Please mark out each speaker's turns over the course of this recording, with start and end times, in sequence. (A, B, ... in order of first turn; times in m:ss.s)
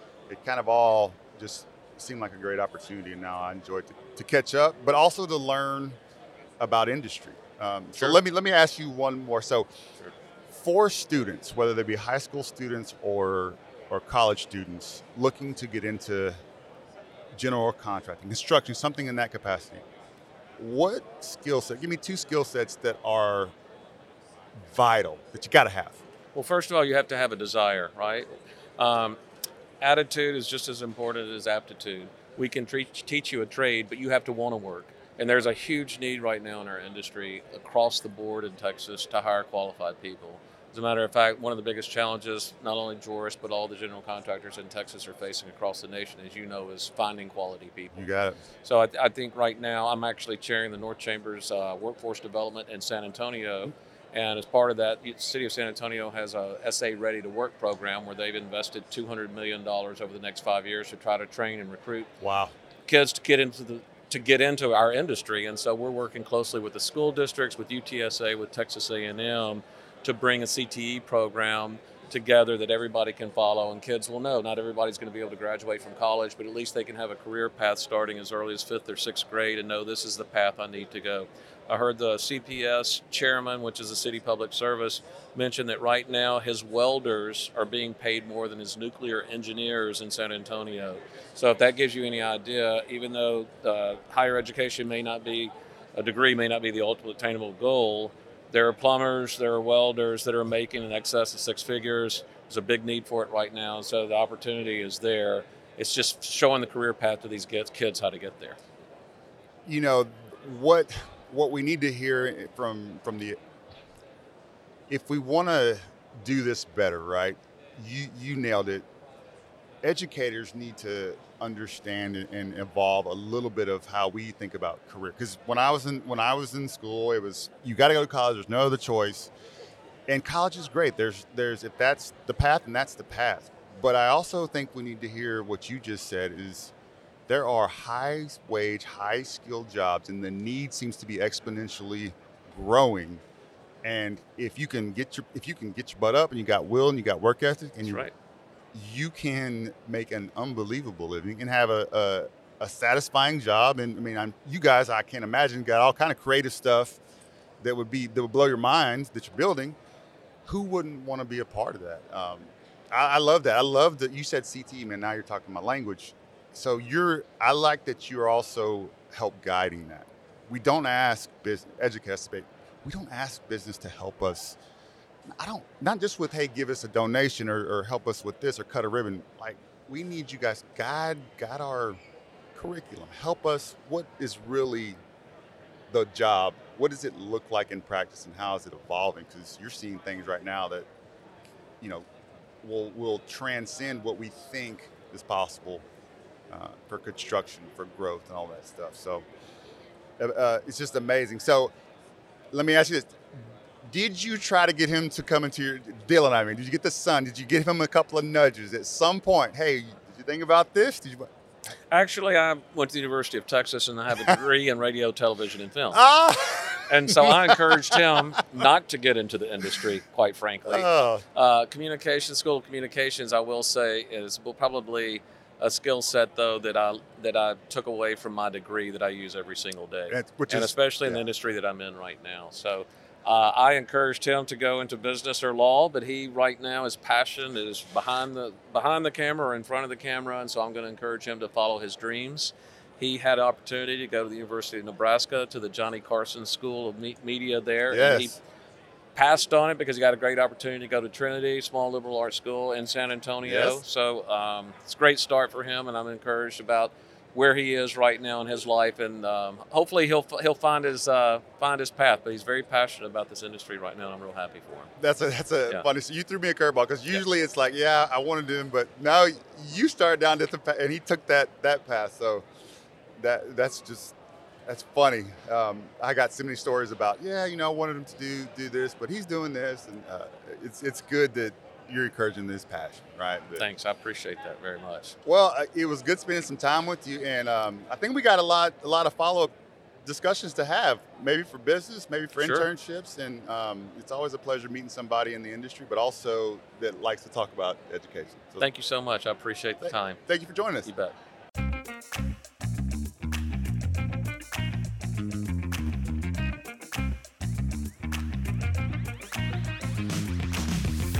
0:00.3-0:06.0 A
0:06.6-0:09.7 A
0:10.5-0:16.4 A
0:17.3-0:19.8 A
0:20.6-0:23.5 A
0:24.6-0:26.0 A
0:26.3-0:29.2 B
0:29.8-0:48.0 B
0:47.9-0:48.4 A
0:48.6-1:02.1 B
1:02.2-1:02.5 A
1:02.9-1:48.6 B
1:49.6-1:53.4 A
1:54.9-1:58.8 A
1:59.8-2:09.3 A
2:10.1-2:16.7 A
2:17.3-2:23.2 A
2:23.8-2:28.0 A
2:27.8-2:28.1 B
2:28.7-2:37.0 A
2:37.6-2:39.8 A
2:40.4-2:54.6 A
2:55.4-3:02.0 A
3:02.5-3:05.0 A
3:05.9-3:10.9 A
3:11.8-3:12.0 A
3:12.6-3:15.8 A
3:16.5-3:19.2 A
3:20.2-3:21.7 A
3:22.5-3:23.2 A
3:23.8-3:31.3 A
3:31.9-3:36.0 B
3:35.9-3:38.4 A
3:36.9-4:08.4 B
3:40.6-3:41.2 A
3:50.1-3:51.2 A
4:07.9-4:08.4 A
4:09.1-4:24.9 B
4:13.4-4:13.8 A
4:25.0-4:32.4 A
4:33.2-4:34.1 A
4:34.6-4:43.6 A
4:43.6-4:45.2 B
4:45.2-4:49.5 A
4:50.0-4:58.6 A
4:52.4-4:52.7 B
4:58.6-5:00.2 B
4:59.8-5:00.9 A
5:00.8-5:01.1 B